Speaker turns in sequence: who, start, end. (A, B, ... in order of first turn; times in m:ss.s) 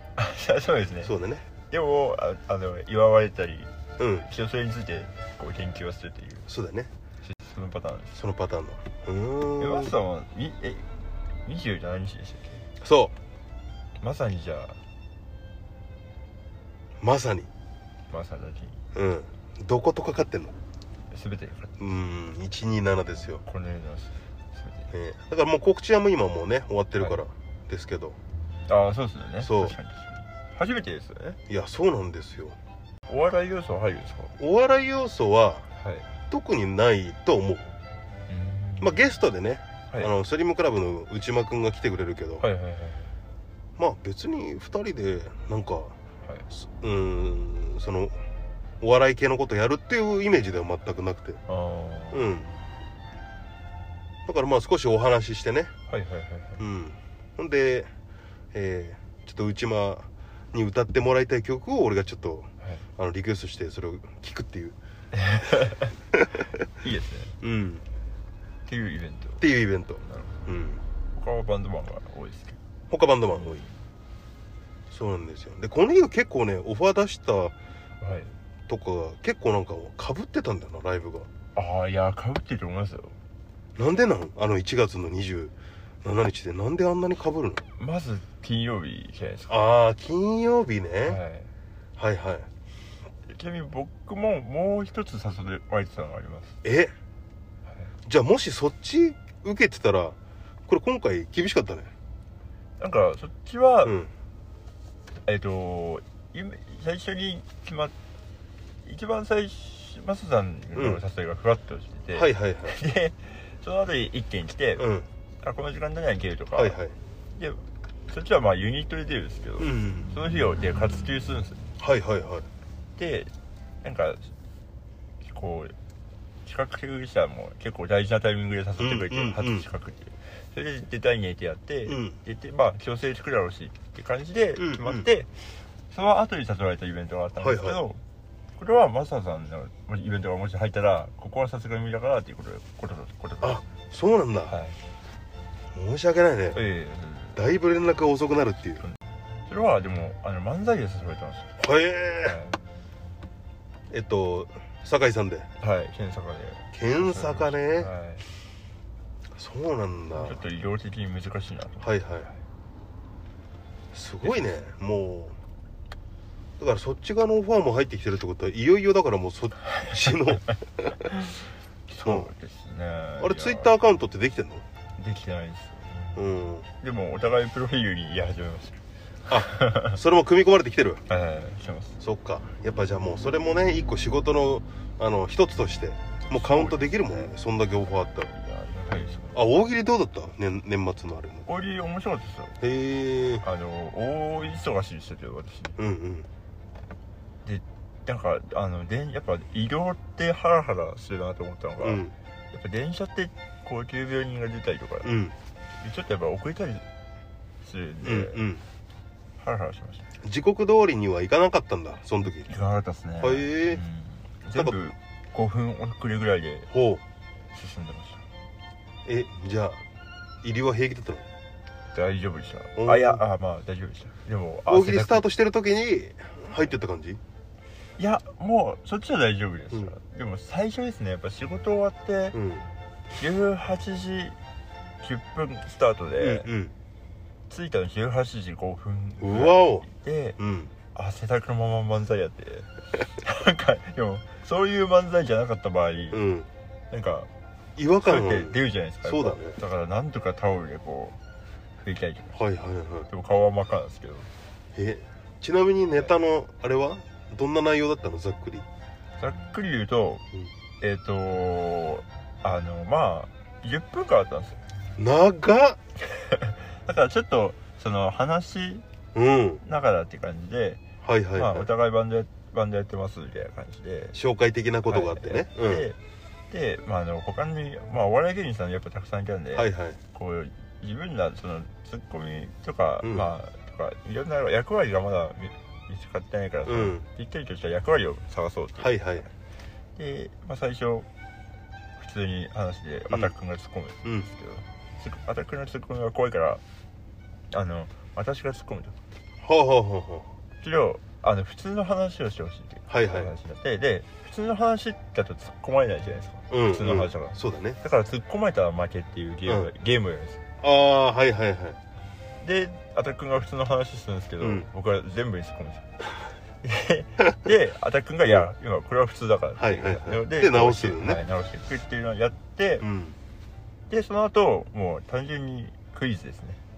0:00.2-0:01.1 A
0:01.0-0:01.4 B
0:01.7-0:03.7 A
0:04.0-0:04.2 B
0:04.2-0:06.5 A
0:06.5-0:06.9 B
0:07.2-0:08.2 A
0:08.2-0:09.9 B
0:09.6-0:10.9 A
0:11.4-0:12.6 A
0:12.8-0:13.1 B
0:14.0-0:14.8 A
0:17.0-0:17.5 B
0:18.1-0:18.8 A
0:18.9-0:20.6 B
0:21.1-0:21.8 A
0:21.8-0:23.4 B
0:23.4-0:24.9 A
0:24.9-0:28.2 B
0:28.7-0:31.4 A
0:29.4-0:29.7 B
0:31.5-0:32.6 B
0:33.1-0:34.4 A
0:34.4-0:35.7 B
0:35.8-0:36.1 A
0:36.3-0:37.7 B
0:38.3-0:39.2 A
0:38.8-0:42.4 B
0:42.4-0:43.1 A
0:43.8-0:45.9 B
0:46.5-0:48.2 B
0:48.8-0:51.4 B
0:51.5-0:52.3 A
0:52.1-0:52.5 B
0:54.2-0:55.7 B
0:55.9-0:56.6 A
0:56.6-0:57.9 B
0:58.5-1:04.8 B
1:05.1-1:05.9 A
1:06.1-1:06.5 B
1:06.8-1:07.4 A
1:07.4-1:07.8 B
1:08.7-1:09.4 A
1:09.4-1:10.8 B
1:10.0-1:10.5 A
1:11.1-1:12.6 A
1:12.9-1:13.6 B
1:13.3-1:13.8 A
1:14.9-1:17.5 B
1:18.0-1:18.3 A
1:18.7-1:21.3 B
1:21.5-1:23.2 A
1:23.8-1:27.6 B
1:27.8-1:29.6 A
1:29.5-1:31.2 B
1:31.0-1:31.5 A
1:32.0-1:32.5 B
1:33.2-1:36.6 A
1:36.6-1:36.9 B
1:38.0-1:40.2 B
1:40.7-1:41.9 B
1:42.8-1:44.0 A
1:43.8-1:44.1 B
1:45.2-1:47.9 A
1:48.8-1:54.9 A
1:50.8-1:51.0 B
1:52.1-1:52.8 B
1:54.8-1:55.0 B
1:55.4-1:56.8 A
1:56.6-1:56.9 B
1:57.3-2:01.6 A
1:59.6-2:00.1 B
2:01.8-2:02.5 B
2:03.0-2:04.3 A
2:05.2-2:05.7 A
2:06.4-2:18.0 A
2:08.8-2:09.6 B
2:11.9-2:12.2 B
2:14.6-2:15.0 B
2:17.4-2:17.8 B
2:18.6-2:23.6 A
2:23.4-2:24.5 B
2:24.5-2:24.8 A
2:25.7-2:26.6 B
2:26.5-2:27.4 A
2:27.3-2:28.8 B
2:28.8-2:31.5 A
2:31.6-2:32.4 B
2:32.2-2:32.6 A
2:33.9-2:35.5 B
2:35.6-2:38.2 A
2:36.7-2:37.9 B
2:39.3-2:40.4 B
2:40.1-2:41.9 A
2:41.8-2:42.3 B
2:43.9-2:45.4 B
2:44.2-2:44.6 A
2:46.6-2:51.1 B
2:49.7-2:50.4 A
2:50.9-2:53.7 A
2:52.0-2:52.3 B
2:53.2-2:54.6 B
2:55.0-2:56.1 A
2:56.2-2:56.7 B
2:56.8-3:00.0 A
2:59.3-3:01.0 B
3:01.1-3:02.0 A
3:02.0-3:08.3 B
3:06.3-3:07.3 A
3:08.3-3:09.4 A
3:09.3-3:11.5 B
3:11.4-3:12.6 A
3:12.6-3:13.4 B
3:13.4-3:15.8 A
3:15.8-3:16.3 B
3:17.4-3:25.2 A
3:21.8-3:22.1 B
3:25.0-3:25.3 B
3:25.8-3:26.8 A
3:27.6-3:28.5 A
3:28.0-3:28.6 B
3:29.4-3:30.1 A
3:30.2-3:32.5 B
3:32.4-3:36.7 A
3:33.2-3:33.8 B
3:36.7-3:37.0 B
3:37.5-3:38.2 A
3:39.0-3:39.8 B
3:40.4-3:41.2 B
3:41.9-3:45.2 A
3:42.8-3:43.2 B
3:44.7-3:47.2 B
3:48.0-3:52.4 A
3:52.3-3:52.6 B
3:53.1-3:54.4 A
3:55.0-3:56.5 A
3:56.2-3:56.7 B
3:57.5-4:00.4 A
3:59.2-3:59.8 B
4:00.4-4:00.7 B
4:00.9-4:06.2 A
4:06.1-4:06.5 B
4:06.9-4:07.3 A
4:07.8-4:09.6 B
4:08.0-4:11.2 A
4:11.8-4:12.4 A
4:12.4-4:13.1 B
4:13.1-4:14.3 A
4:14.8-4:18.6 B
4:19.2-4:20.2 A
4:20.8-4:24.6 A
4:25.0-4:25.8 B
4:26.0-4:28.8 A
4:29.1-4:29.6 B
4:29.6-4:30.8 A
4:31.0-4:31.7 B
4:31.3-4:34.2 A
4:34.1-4:35.9 B
4:34.9-4:36.0 A
4:36.5-4:48.9 A
4:39.5-4:40.0 B
4:43.0-4:43.3 B
4:46.6-4:47.0 B
4:48.8-4:49.3 B
4:50.0-4:51.1 A
4:52.0-4:56.6 A
4:57.5-4:59.0 A
4:59.4-5:00.3 B
5:00.6-5:10.4 A
5:02.9-5:03.3 B
5:06.5-5:07.8 B
5:10.6-5:11.8 B
5:12.4-5:15.9 A
5:14.4-5:14.6 B
5:16.6-5:22.9 A
5:19.6-5:21.2 B
5:22.8-5:23.2 B
5:23.9-5:26.6 A